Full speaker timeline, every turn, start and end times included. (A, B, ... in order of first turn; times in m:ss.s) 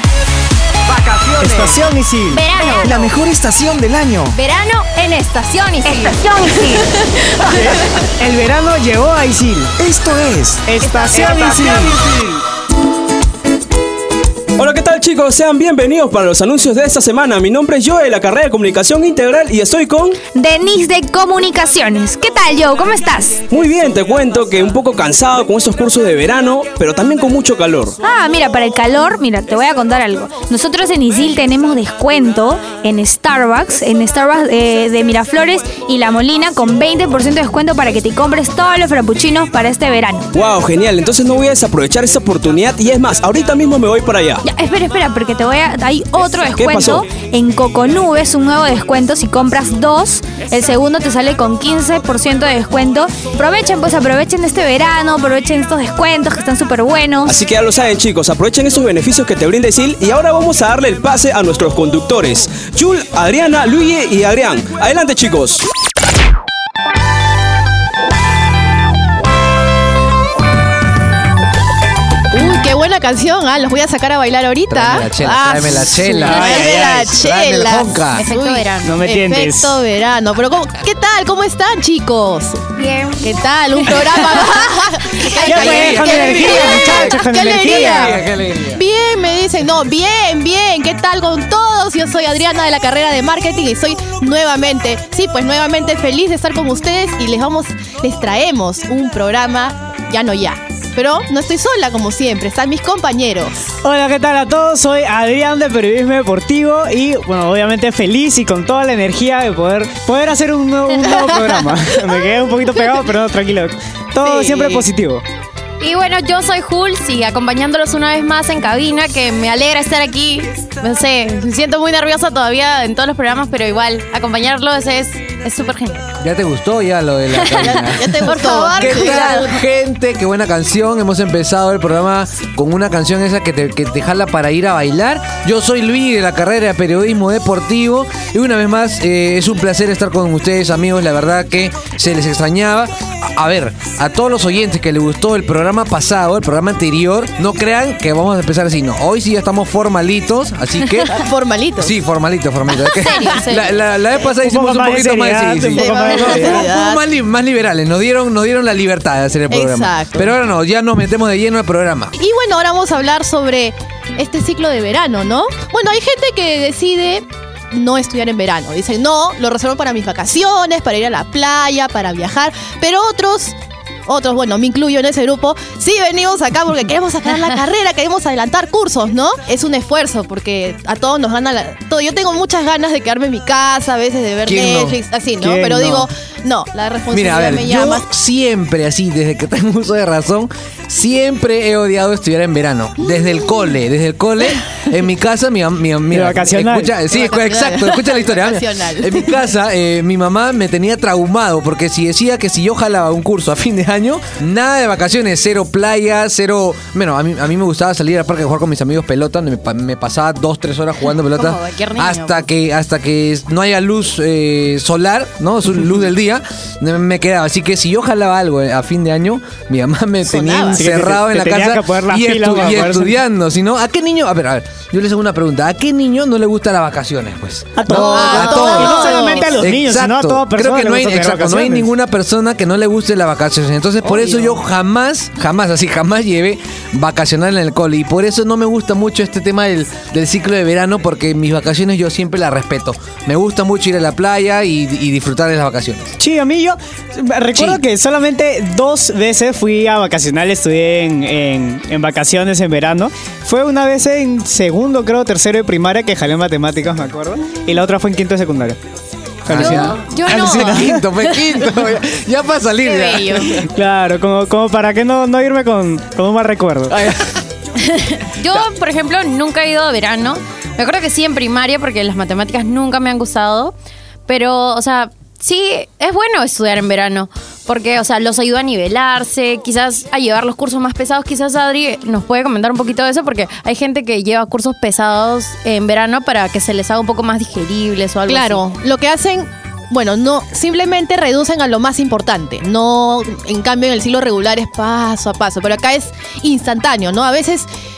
0:01.0-0:01.8 A
0:01.4-0:02.4 B
0:02.3-0:03.1 C
0:02.8-0:04.4 A
0:04.3-0:07.8 C
0:05.9-0:06.8 D
0:08.2-0:09.7 B
0:09.8-0:10.6 A
0:10.7-0:12.0 B
0:10.8-0:11.3 C
0:11.2-0:12.2 E
0:11.4-0:11.8 A
0:14.6-0:20.2 E
0:20.2-0:23.4 D
0:23.5-0:28.0 E
0:28.0-0:40.3 D
0:40.3-0:44.4 E
0:44.4-0:57.4 D
0:46.6-0:47.0 E
0:57.3-1:05.6 E
1:12.3-1:22.7 F
1:14.7-1:18.2 G
1:16.3-1:16.9 B
1:18.1-1:19.0 C
1:18.8-1:19.8 B
1:22.8-1:23.3 C
1:23.2-1:43.7 F
1:23.8-1:24.6 C
1:25.2-1:27.1 C
1:25.4-1:28.2 B
1:25.5-1:28.8 G
1:43.8-1:55.2 B
1:54.2-1:54.9 C
1:55.8-2:06.1 C
2:06.2-2:31.1 G
2:07.3-2:07.7 C
2:07.6-2:09.5 F
2:08.2-2:09.5 C
2:31.0-2:32.0 F
2:31.8-2:42.1 G
2:33.0-2:33.8 C
2:34.4-2:36.6 B
2:35.7-2:37.0 F
2:39.5-2:40.3 F
2:42.2-2:53.6 F
2:54.1-3:08.1 F
3:04.4-3:05.0 G
3:05.4-3:06.1 B
3:07.1-4:06.1 G
3:16.1-3:16.9 B
3:17.1-3:19.3 F
3:31.1-3:32.5 C
3:40.2-3:41.0 F
3:40.8-3:43.2 B
3:47.8-3:51.9 B
3:47.9-3:49.7 F
3:49.0-3:49.4 C
3:54.0-3:54.6 F
4:06.2-4:18.8 B
4:07.6-4:07.8 G
4:19.5-4:19.8 B
4:19.5-4:23.7 G
4:19.5-4:21.7 C
4:22.8-4:23.6 C
4:23.6-4:27.0 B
4:26.9-4:27.4 G
4:27.8-4:33.8 C
4:34.3-4:48.6 C
4:48.3-4:57.7 F